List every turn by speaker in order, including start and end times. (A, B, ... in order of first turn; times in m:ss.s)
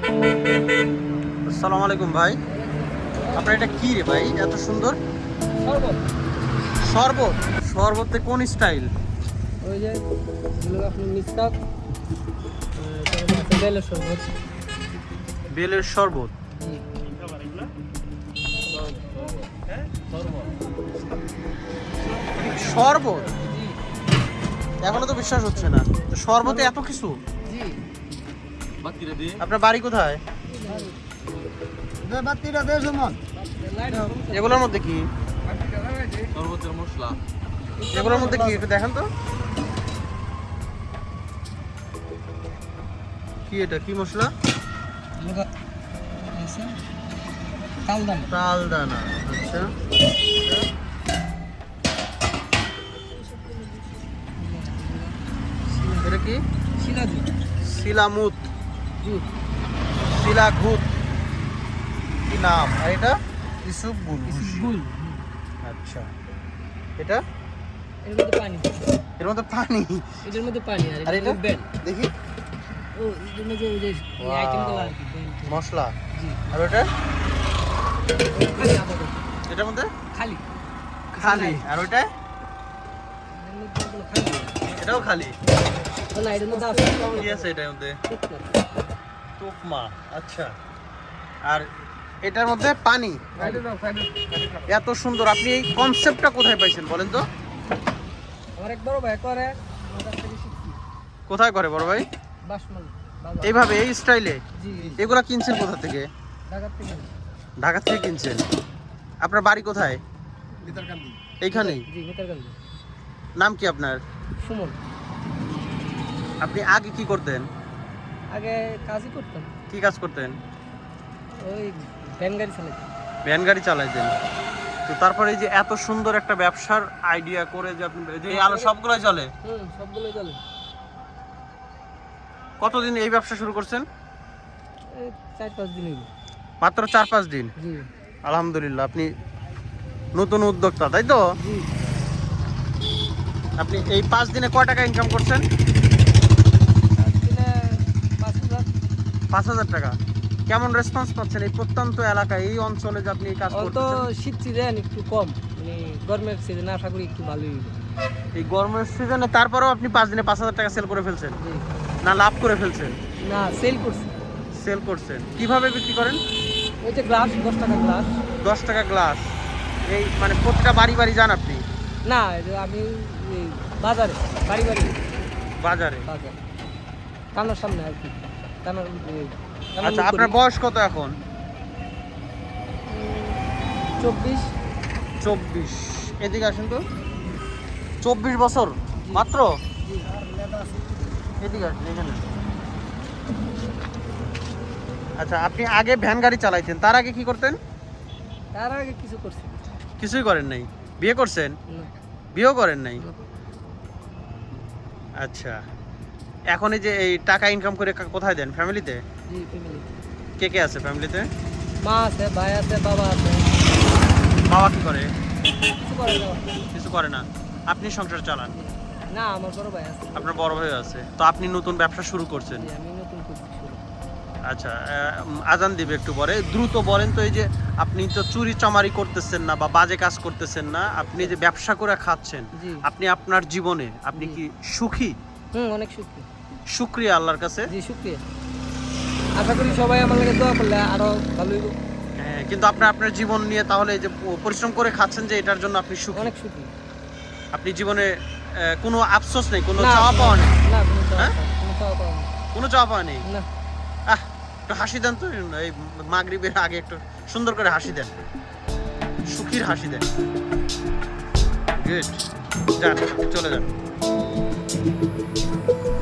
0:01.5-0:02.4 A
0:02.5-0:03.5 B
0:03.3-0:05.0 A
0:05.6-0:06.1 B
0:06.8-0:08.9 A
0:09.6-0:10.0 B
0:10.6-0:11.6 B
0:12.7-0:14.3 B
0:15.5-0:16.3 A
0:16.5-0:16.8 B
0:18.7-0:19.0 B
0:22.3-0:23.4 A
0:23.3-0:23.8 B
0:24.8-0:27.2 A
0:26.4-0:26.7 B
0:27.4-0:27.8 B
0:28.8-0:29.4 C
0:29.4-0:30.2 A
0:30.5-0:31.1 B
0:32.0-0:33.2 C
0:33.3-0:34.7 B
0:34.1-0:35.1 A
0:35.8-0:37.2 C
0:37.8-0:38.6 B
0:37.9-0:39.1 A
0:43.5-0:44.3 A
0:45.2-0:45.5 B
0:46.3-0:46.8 B
0:47.9-0:48.3 B
0:48.3-0:49.7 A
0:50.4-0:50.7 A
0:54.4-0:56.1 B
0:56.0-0:56.4 A
0:56.7-0:57.3 B
0:57.6-0:58.4 A
0:59.0-0:59.3 B
1:00.0-1:00.9 A
1:02.2-1:04.7 A
1:04.2-1:05.2 B
1:05.6-1:06.1 A
1:08.0-1:08.9 B
1:09.2-1:10.1 A
1:10.2-1:11.7 B
1:11.0-1:12.1 A
1:12.9-1:15.6 B
1:14.2-1:15.0 A
1:15.5-1:15.9 A
1:16.1-1:16.4 B
1:16.5-1:16.9 A
1:18.3-1:19.3 B
1:19.5-1:19.9 A
1:20.1-1:20.4 B
1:21.2-1:22.1 A
1:21.2-1:21.7 B
1:23.3-1:24.9 B
1:24.8-1:25.4 A
1:26.1-1:27.5 B
1:27.1-1:28.0 A
1:28.1-1:28.5 B
1:29.4-1:30.5 A
1:32.2-1:33.3 A
1:33.4-1:33.7 B
1:33.8-1:34.3 C
1:34.6-1:37.3 A
1:38.6-1:40.8 B
1:41.3-1:42.1 A
1:42.4-1:43.6 B
1:43.4-1:44.4 A
1:44.6-1:45.0 B
1:45.0-1:46.1 A
1:46.5-1:47.1 B
1:47.6-1:48.4 A
1:49.2-1:50.0 A
1:50.6-1:50.9 B
1:51.4-1:51.8 A
1:51.5-1:52.6 B
1:53.4-1:54.0 A
1:54.4-1:54.8 B
1:56.4-1:57.5 A
1:58.3-1:59.5 B
1:59.7-2:00.4 A
2:01.4-2:02.9 B
2:03.2-2:04.1 A
2:04.9-2:09.3 A
2:08.3-2:08.7 B
2:09.4-2:10.4 B
2:12.6-2:13.8 A
2:14.9-2:16.1 B
2:16.6-2:17.5 A
2:17.6-2:17.9 B
2:18.2-2:19.1 A
2:20.1-2:21.2 A
2:21.3-2:21.7 B
2:23.6-2:25.4 A
2:27.0-2:28.7 B
2:29.3-2:30.0 A
2:30.5-2:34.0 A
2:33.5-2:37.8 B
2:38.3-2:41.4 A
2:41.4-2:41.7 B
2:42.0-2:43.0 A
2:43.2-2:44.2 B
2:44.5-2:46.2 A
2:46.8-2:48.2 B
2:48.4-2:49.3 A
2:49.8-2:51.6 A
2:52.0-2:55.0 B
2:55.6-2:56.1 A
2:56.1-2:56.4 B
2:57.3-3:00.4 B
2:59.8-3:01.2 A
3:02.8-3:03.4 B
3:04.0-3:04.5 B
3:05.2-3:06.8 A
3:08.0-3:09.5 A
3:09.0-3:09.3 B
3:09.8-3:10.2 B
3:10.3-3:10.8 C
3:11.4-3:12.2 A
3:15.2-3:17.6 A
3:18.5-3:19.6 B
3:20.0-3:21.6 A
3:22.3-3:23.0 A
3:25.2-3:25.6 A
3:26.5-3:29.0 A
3:29.3-3:29.9 B
3:30.4-3:31.3 A
3:31.8-3:33.6 B
3:34.4-3:35.1 A
3:35.5-3:36.6 B
3:36.7-3:38.5 A
3:38.5-3:40.5 B
3:40.1-3:42.7 A
3:42.5-3:43.8 B
3:44.4-3:55.2 A
3:52.6-3:52.8 B
3:54.1-3:54.4 B
3:55.5-3:56.3 B
3:56.7-3:57.7 A
3:57.7-3:58.2 B
3:59.4-4:01.8 B
4:02.2-4:06.3 A
4:06.1-4:06.7 B
4:07.5-4:10.6 A
4:09.8-4:12.3 B
4:12.5-4:13.2 A
4:14.1-4:18.1 A
4:19.2-4:20.0 A
4:21.8-4:22.2 A
4:22.8-4:23.7 A